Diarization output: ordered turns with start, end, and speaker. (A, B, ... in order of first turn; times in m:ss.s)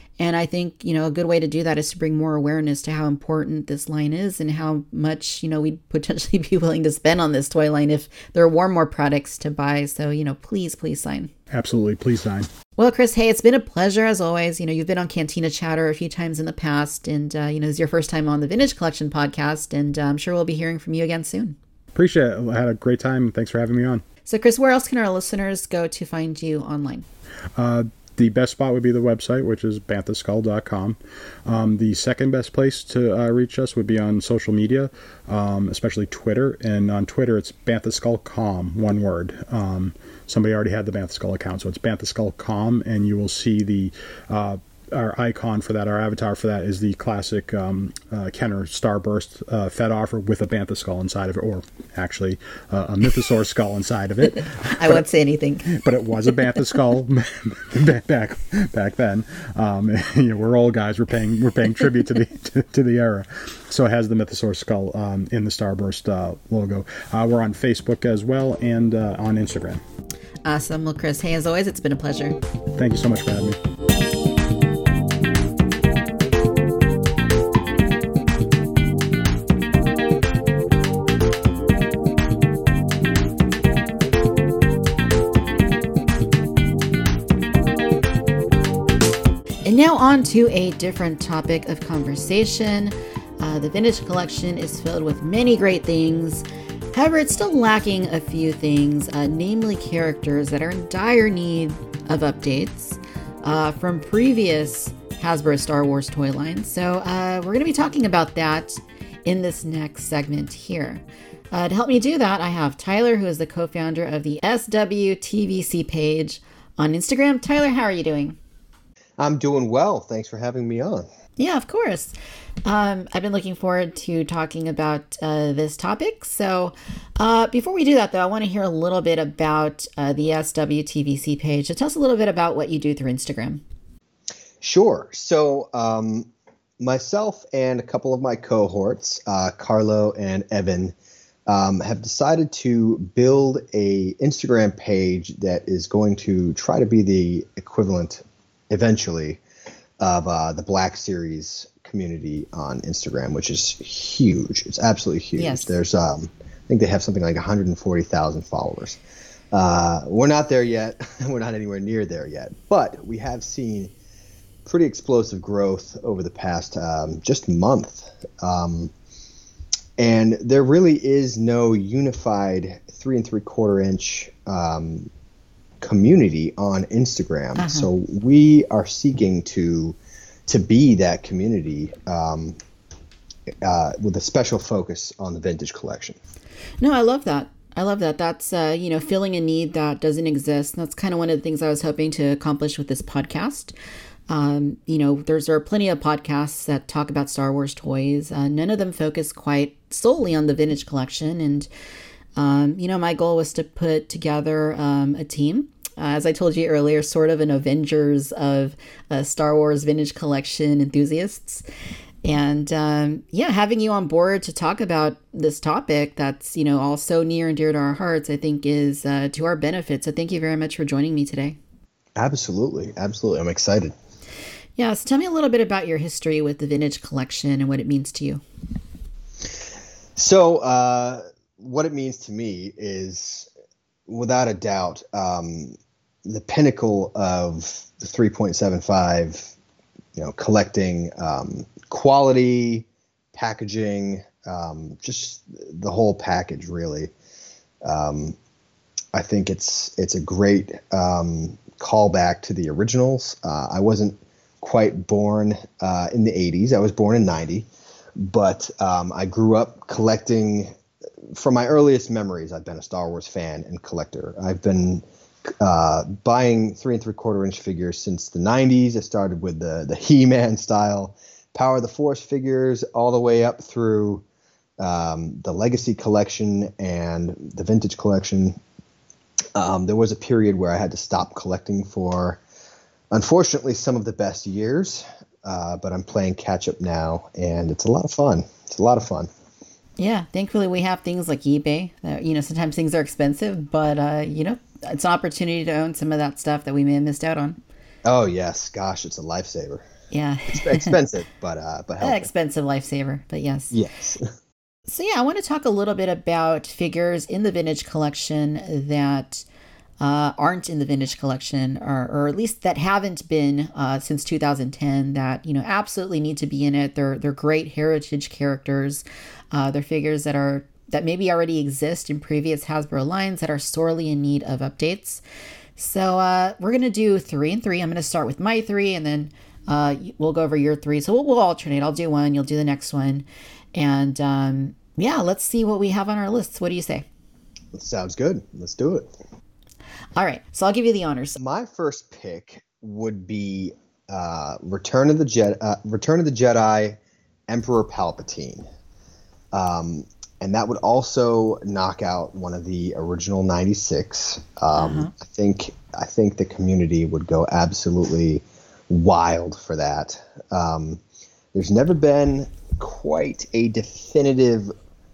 0:00.2-0:11.3 A
0:11.5-0:12.5 B
0:12.8-0:21.6 A
0:21.9-0:24.0 B
0:24.2-0:27.0 A
0:27.6-0:55.0 B
0:54.5-0:55.8 A
0:55.6-1:09.8 B
1:10.4-1:12.4 A
1:12.8-1:13.6 B
1:29.6-1:58.4 A
1:59.2-2:01.1 C
2:01.4-2:02.1 A
2:02.6-2:13.6 A
2:14.6-2:16.3 C
2:16.8-2:20.9 C
2:21.5-2:29.4 C
2:30.0-2:39.0 C
2:35.4-2:35.8 A
2:39.5-2:43.9 C
2:44.6-2:48.9 C
2:50.0-2:55.1 C
2:55.8-3:02.6 C
2:57.6-2:57.9 A
3:03.6-3:06.2 C
3:06.8-3:13.7 A
3:14.3-3:21.7 A
3:22.4-3:31.6 A
3:32.2-3:41.6 A
3:42.2-3:43.9 C
3:44.8-3:48.4 A
3:50.2-3:53.5 C
3:54.1-3:59.5 C
4:00.2-4:07.1 C
4:07.8-4:08.4 C
4:09.1-4:20.7 C
4:21.3-4:34.2 C
4:34.8-4:38.6 C
4:39.5-4:42.4 C
4:43.1-4:49.3 C
4:50.0-4:57.6 A
4:58.0-4:59.8 C
5:00.1-5:00.9 A
5:00.5-5:02.3 C
5:02.0-5:03.8 A
5:03.7-5:04.2 C
5:04.9-5:09.4 A
5:10.0-5:25.2 A
5:25.8-5:37.0 A
5:37.7-5:39.1 C
5:40.2-5:41.4 A
5:41.4-5:47.0 C
5:47.5-5:48.6 C
5:49.5-6:01.0 C
5:54.7-5:55.1 A
6:01.5-6:04.7 C